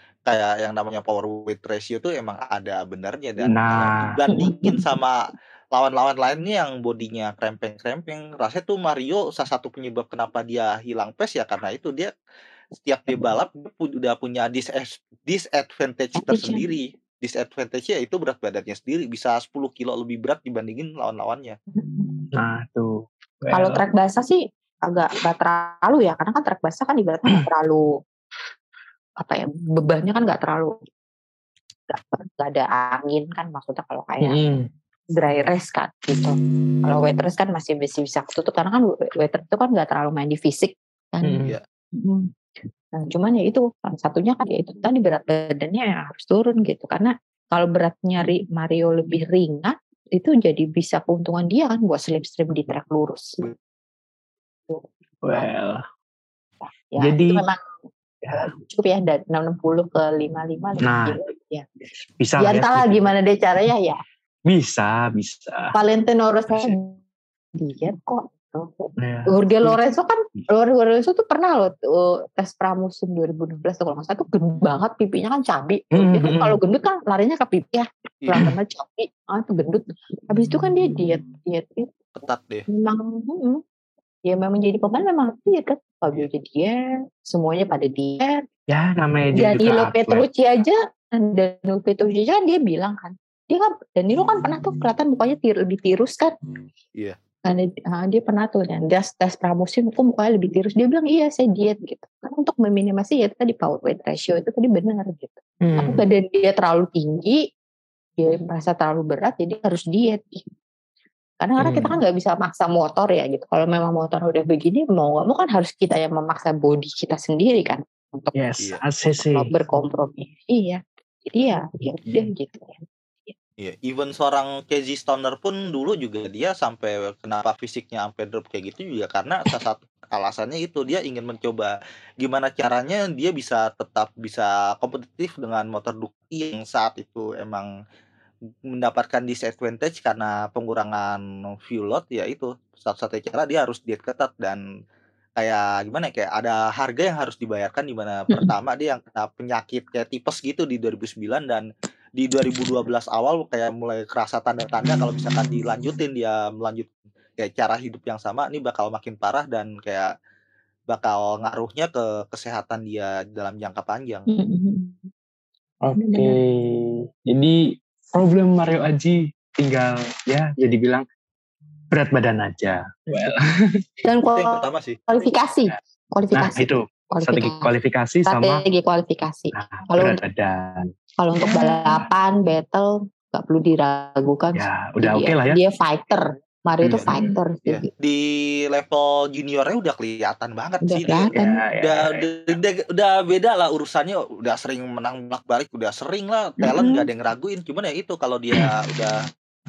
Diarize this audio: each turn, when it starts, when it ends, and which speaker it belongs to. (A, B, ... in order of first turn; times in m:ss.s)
0:00.3-0:05.2 A
0:03.4-0:04.2 B
0:04.3-0:04.8 C
0:05.7-0:12.1 A
0:12.8-0:21.6 A
0:16.2-0:16.6 C
0:21.8-0:22.2 C
0:22.3-0:23.8 B
0:23.5-0:27.9 C
0:29.2-0:30.8 C
0:31.9-0:34.4 C
0:34.2-0:34.6 B
0:35.2-0:42.3 C
0:41.2-0:41.5 B
0:42.9-0:53.4 C
0:54.7-0:55.5 C
0:55.2-0:55.8 B
0:56.6-0:57.6 C
0:57.0-0:57.4 B
0:58.3-1:01.6 C
1:00.8-1:01.2 B
1:02.2-1:03.1 B
1:02.4-1:04.0 C
1:04.5-1:05.7 B
1:05.7-1:07.0 C
1:07.6-1:22.0 C
1:09.0-1:09.8 B
1:15.9-1:16.6 B
1:18.2-1:18.5 A
1:22.2-1:22.6 A
1:22.7-1:23.6 C
1:24.2-1:28.4 C
1:28.7-1:30.2 B
1:29.3-1:36.3 C
1:37.4-1:47.4 C
1:45.6-1:46.0 B
1:48.2-1:50.4 C
1:51.4-1:58.4 C
1:51.6-1:52.0 B
1:58.3-1:59.7 B
1:59.3-2:03.3 C
2:03.6-2:17.7 A
2:18.7-2:24.6 A
2:25.4-2:31.6 A
2:32.2-2:40.1 A
2:40.9-2:44.3 A
2:44.3-2:45.1 C
2:45.8-2:51.0 B
2:46.0-2:46.4 C
2:51.9-2:53.8 B
2:54.0-2:57.7 C
2:54.3-2:55.0 A
2:56.3-2:58.6 B
2:58.2-3:00.2 C
2:59.5-3:00.9 B
3:01.2-3:07.9 C
3:01.4-3:02.1 B
3:04.5-3:05.6 B
3:06.8-3:07.4 B
3:07.6-3:19.2 A
3:10.8-3:11.4 C
3:11.3-3:12.5 B
3:16.6-3:17.0 C